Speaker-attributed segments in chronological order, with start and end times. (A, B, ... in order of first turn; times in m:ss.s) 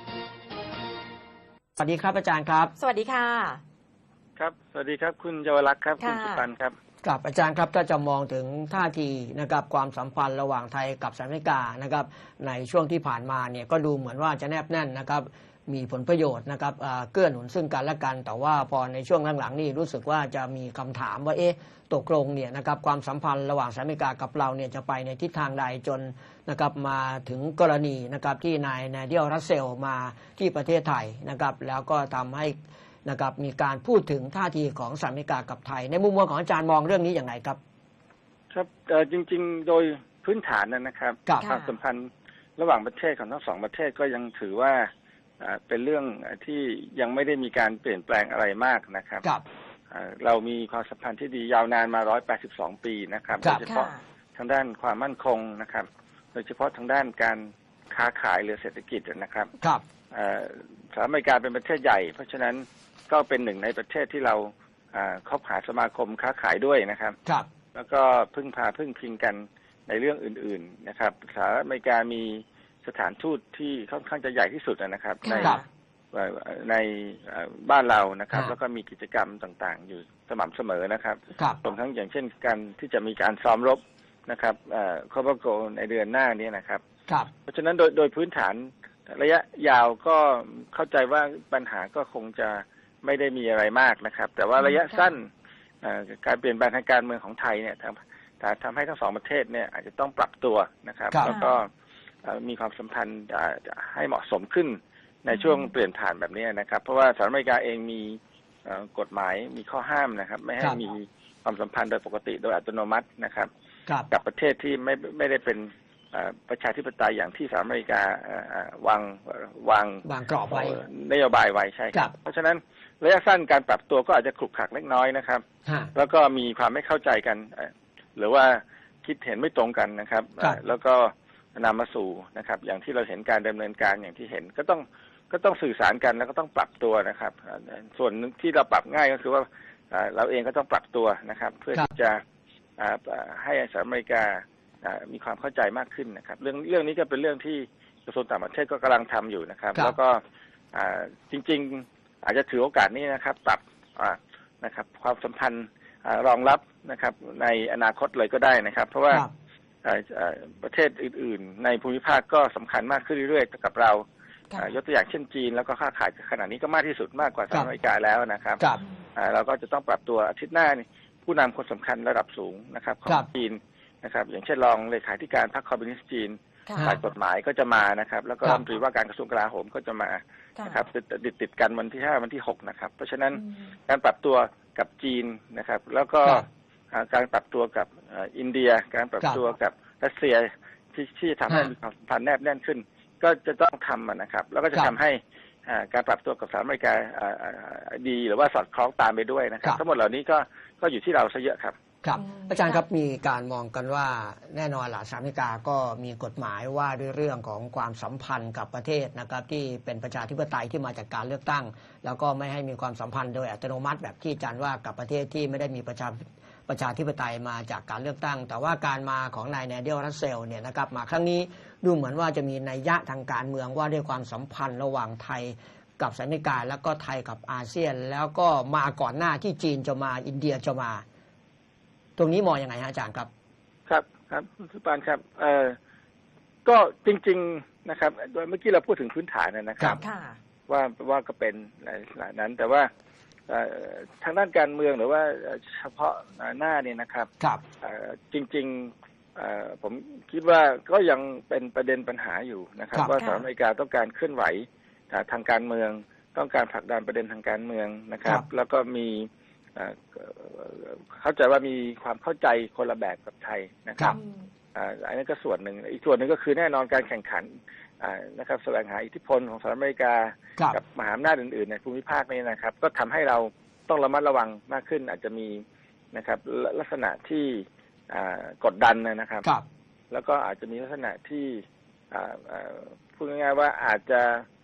0:01.8-0:02.7 A
0:02.8-0:03.6 B
0:04.4-0:06.7 C
0:06.0-0:06.4 B
0:07.0-0:37.6 A
0:38.5-0:49.3 C
0:41.4-0:41.7 B
0:49.9-0:59.5 C
0:53.4-0:53.6 A
0:53.6-0:54.0 B
1:00.1-1:07.2 C
1:07.7-1:15.6 C
1:15.2-1:15.6 B
1:16.1-1:26.8 C
1:27.4-1:35.3 C
1:34.6-1:35.0 B
1:35.8-1:41.7 C
1:41.1-1:41.4 A
1:41.3-1:41.5 B
1:42.2-1:53.5 C
1:54.1-2:22.2 C
2:00.0-2:00.8 A
2:05.6-2:05.9 A
2:22.8-2:30.2 C
2:30.7-2:39.2 C
2:39.8-2:44.0 C
2:44.6-2:48.6 C
2:49.2-3:21.8 C
3:22.0-3:51.0 A
3:22.2-3:22.8 B
3:52.2-3:53.3 A
3:53.9-3:55.8 C
3:56.6-4:00.0 C
4:00.0-4:00.4 B
4:00.7-4:02.9 C
4:03.5-4:07.3 C
4:07.8-4:24.2 C
4:13.2-4:13.4 B
4:24.2-4:24.4 B
4:24.7-4:39.5 C
4:40.1-4:44.4 C